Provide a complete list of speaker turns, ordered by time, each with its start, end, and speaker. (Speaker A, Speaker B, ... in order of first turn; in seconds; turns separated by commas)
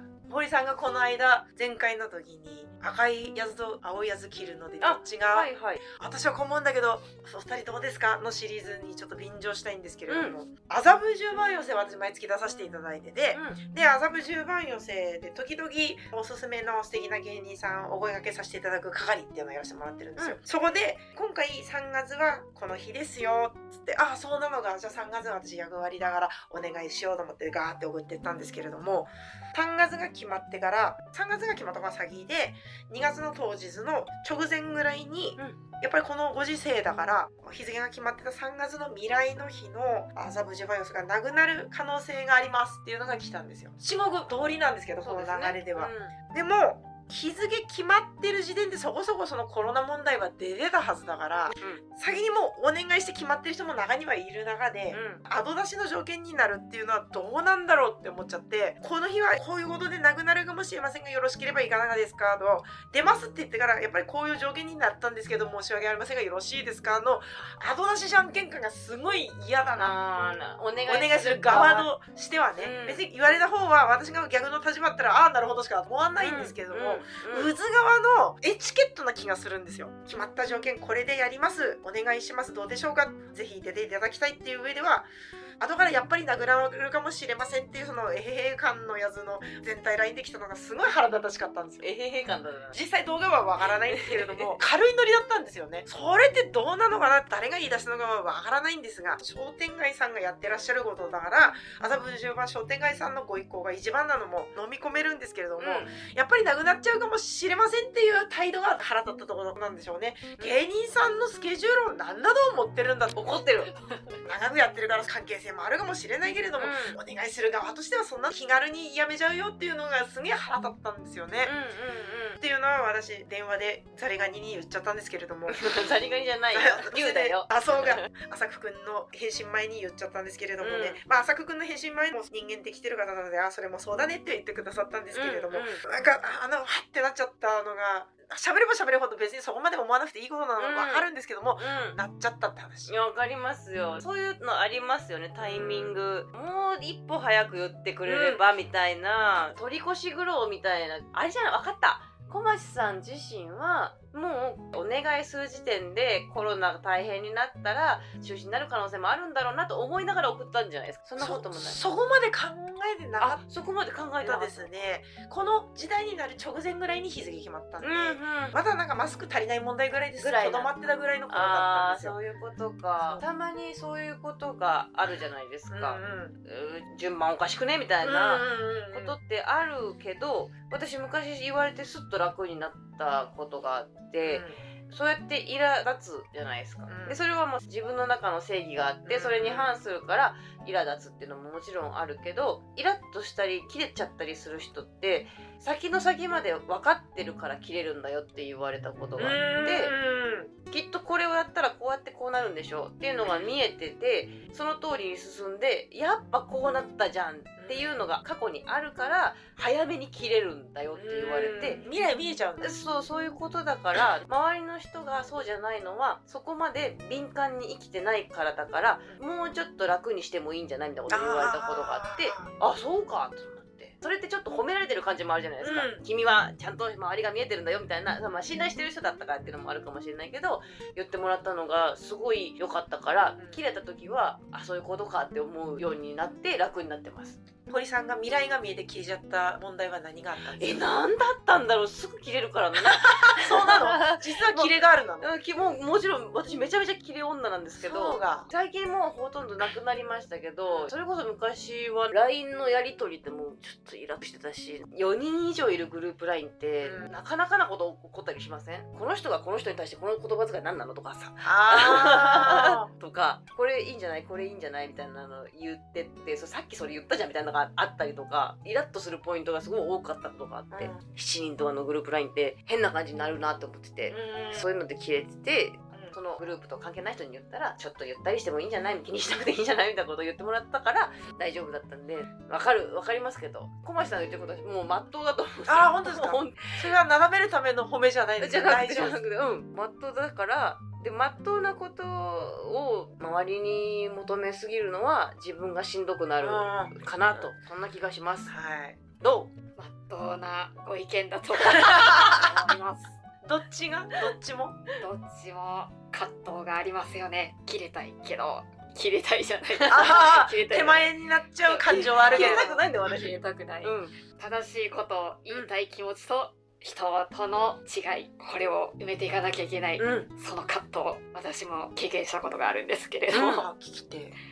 Speaker A: 0.3-70.0, Speaker B: 4.8-5.8, Speaker B: 10.1-10.3, Speaker B: 13.3-13.6, Speaker B: 45.0-46.1, Speaker B: 51.5-51.8, Speaker B: 54.9-55.2, Speaker B: 69.8-71.9, Speaker A: 70.9-85.1, Speaker B: 72.6-73.0, Speaker B: 76.2-77.5, Speaker A: 85.6-91.8, Speaker B: 91.8-92.8, Speaker A: 92.7-113.4, Speaker B: 93.8-94.5, Speaker B: 105.6-105.9, Speaker B: 113.2-113.7, Speaker C: 113.8-114.2, Speaker A: 114.2-121.5, Speaker B: 116.6-117.0, Speaker B: 121.4-122.4, Speaker A: 122.4-125.9, Speaker B: 125.5-128.1, Speaker A: 126.5-142.9, Speaker B: 130.6-131.0, Speaker B: 135.1-135.8, Speaker B: 140.6-142.0, Speaker B: 142.9-161.8, Speaker A: 145.4-146.0, Speaker A: 148.1-148.4, Speaker A: 161.2-163.4, Speaker B: 163.2-164.8, Speaker A: 164.2-172.2, Speaker B: 167.8-168.6, Speaker B: 170.2-170.7, Speaker B: 171.3-199.9, Speaker A: 175.7-176.4, Speaker A: 178.0-179.2, Speaker A: 184.2-184.6, Speaker A: 186.9-187.2, Speaker A: 189.1-189.8, Speaker A: 199.2-200.5, Speaker B: 200.7-211.8, Speaker A: 203.2-203.5, Speaker A: 207.6-207.9, Speaker A: 210.9-212.7, Speaker B: 212.6-237.4, Speaker A: 221.1-222.5, Speaker A: 225.6-226.0, Speaker A: 237.7-240.9, Speaker B: 240.6-286.9, Speaker A: 242.9-245.3, Speaker A: 247.8-248.5, Speaker A: 250.6-250.9, Speaker A: 256.8-257.1, Speaker A: 261.4-262.9, Speaker A: 270.7-271.0, Speaker A: 274.1-274.7, Speaker A: 285.7-289.2, Speaker B: 288.4-298.5, Speaker A: 296.4-297.4, Speaker A: 298.5-299.0, Speaker B: 299.2-299.5, Speaker C: 299.8-303.2, Speaker A: 302.1-302.4, Speaker A: 303.4-304.8, Speaker C: 305.0-323.6, Speaker A: 309.9-312.7, Speaker B: 311.8-314.1, Speaker B: 320.0-320.3, Speaker B: 323.3-323.6, Speaker A: 323.3-324.3